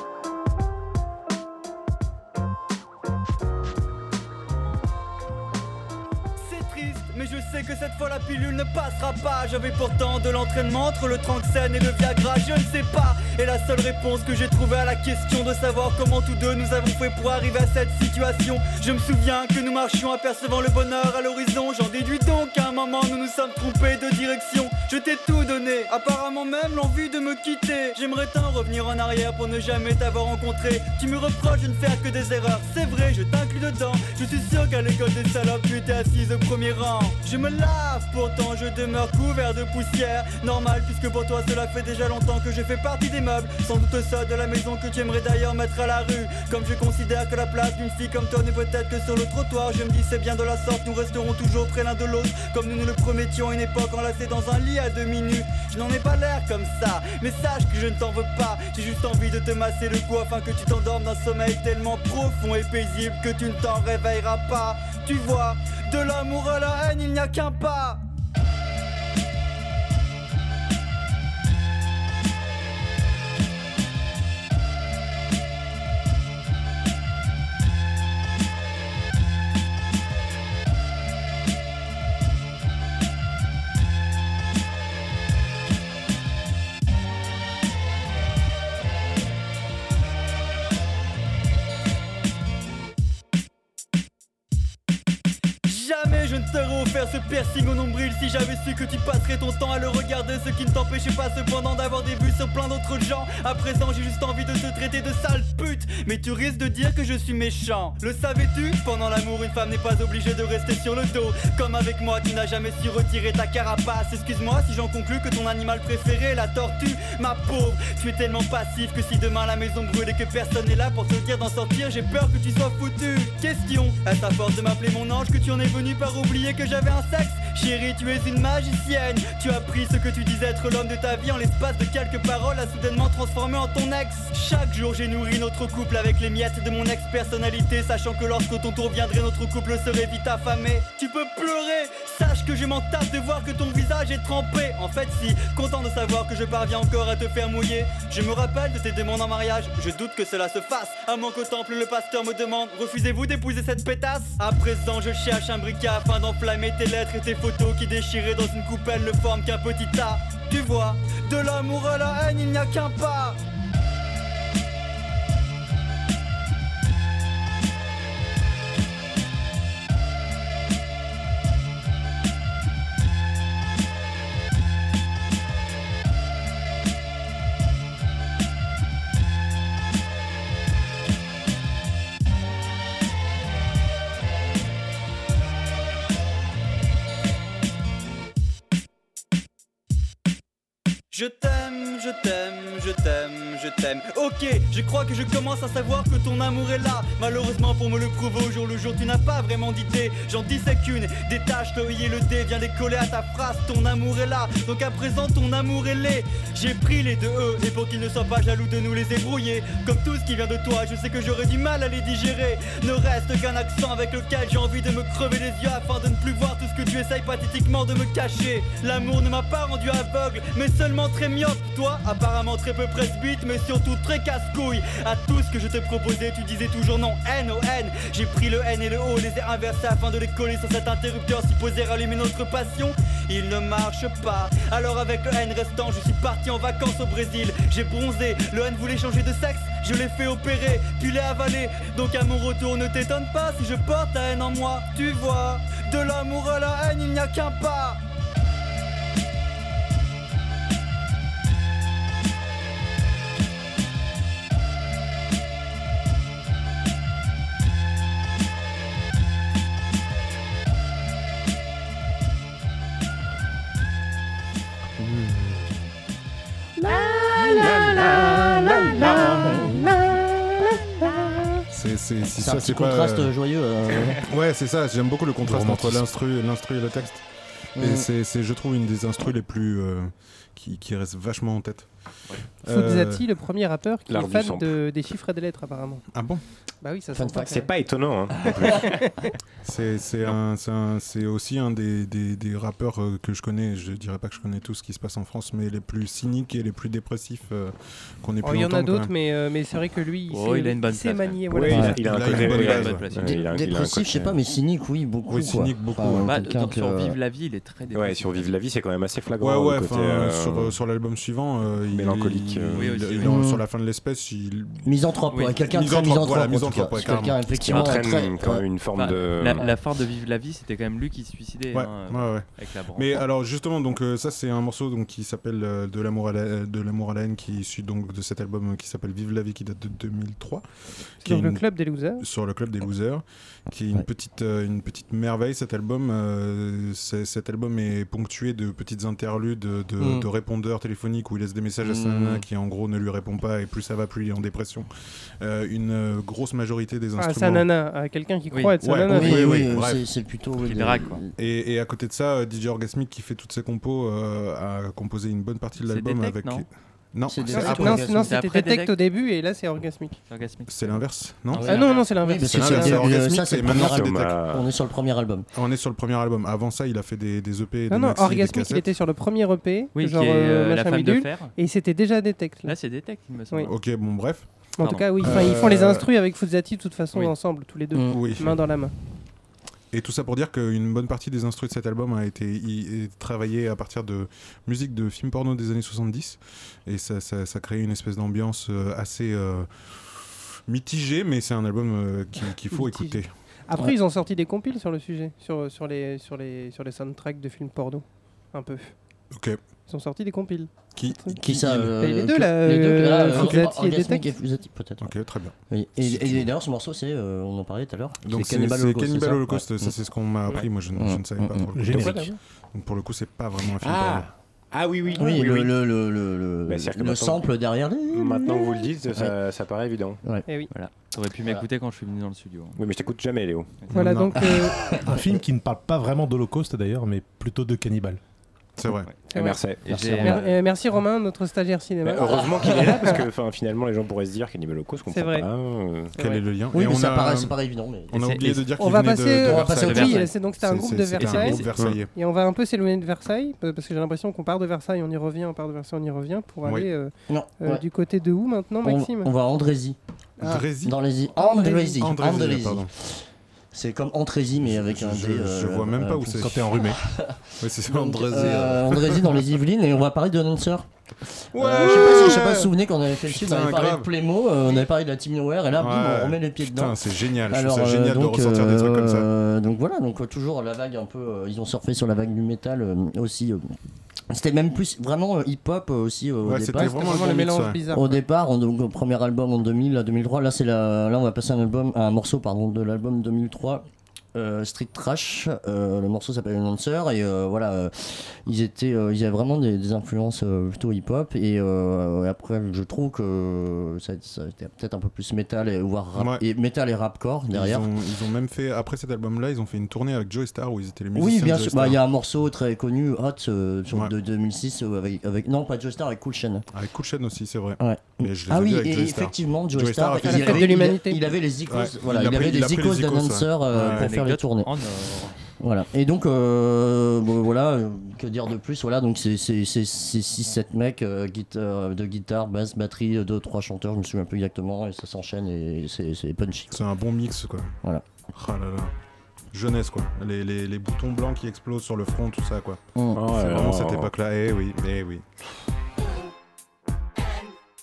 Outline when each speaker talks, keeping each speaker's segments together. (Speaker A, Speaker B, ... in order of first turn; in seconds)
Speaker A: 6.4-68.0, 95.6-163.4, 191.1-248.0
Speaker B: 265.0-265.9, 269.0-269.8, 271.7-273.3, 274.3-277.2, 277.8-281.9, 282.6-283.2, 286.1-286.4, 289.6-299.1, 301.9-303.3, 305.3-306.3, 309.4-314.9, 315.7-317.5, 321.7-330.6, 331.2-344.9, 345.4-347.7, 348.8-350.0, 351.4-358.1, 360.7-364.2, 365.5-368.9, 373.7-376.1, 378.1-378.6, 379.9-393.3, 400.9-401.9, 403.3-403.7, 405.0-406.5, 408.2-414.3, 423.9-424.4, 428.8-429.1, 436.1-437.5, 438.1-442.1, 446.6-446.9, 450.4-452.9, 454.6-456.9, 457.6-459.4, 461.5-464.1, 465.8-469.3, 476.4-477.8, 496.1-496.4, 497.5-502.0, 506.7-510.8, 511.7-514.1, 526.7-527.7, 528.3-528.9, 529.5-535.3
Speaker C: 266.8-271.3, 272.3-274.2, 277.8-278.1, 287.1-287.5, 288.4-289.0, 301.7-302.0, 303.2-307.2, 313.2-313.6, 314.8-318.6, 340.0-340.2, 341.8-342.4, 349.1-351.3, 357.2-358.3, 361.6-365.5, 377.9-378.2, 401.3-405.1, 405.7-409.9, 410.9-412.3, 415.1-419.4, 424.4-425.2, 429.8-430.5, 432.4-433.2, 436.7-438.6, 439.4-440.2, 447.3-447.8, 448.8-460.9, 461.5-473.8, 474.3-497.9, 501.1-506.6, 507.8-514.7, 515.6-526.8, 532.9-533.2
Speaker D: 275.4-276.0, 411.8-412.2, 425.0-428.2, 456.4-457.0
Speaker E: 282.6-286.1, 286.8-287.7, 288.4-289.3, 298.4-302.1, 331.2-332.2, 347.2-349.7, 357.6-360.2, 361.7-363.1, 367.9-372.8, 374.8-378.9, 392.7-398.9, 399.9-401.4, 401.9-404.3, 423.9-424.8, 429.3-429.6, 430.2-433.2, 435.1-435.4, 438.8-449.3, 476.7-478.2, 510.2-511.2
Speaker F: 284.1-284.8, 287.4-289.0, 301.5-304.4, 307.9-310.8, 311.9-312.9, 317.6-319.7, 363.7-364.7, 411.9-412.2, 413.8-415.7, 416.7-417.5, 418.1-420.2, 422.8-423.9, 429.3-430.0, 432.0-436.1, 441.7-442.0, 533.1-534.1
Speaker G: 300.3-303.4, 306.1-308.5, 312.8-313.3, 318.9-323.2, 348.5-348.8, 350.6-351.2, 355.8-356.6, 357.8-359.0, 360.3-362.1, 369.9-371.5, 372.6-373.7, 374.8-375.3, 420.7-422.8, 423.8-424.2, 429.8-430.5, 438.1-438.6, 439.7-440.3, 441.2-441.6, 513.8-515.4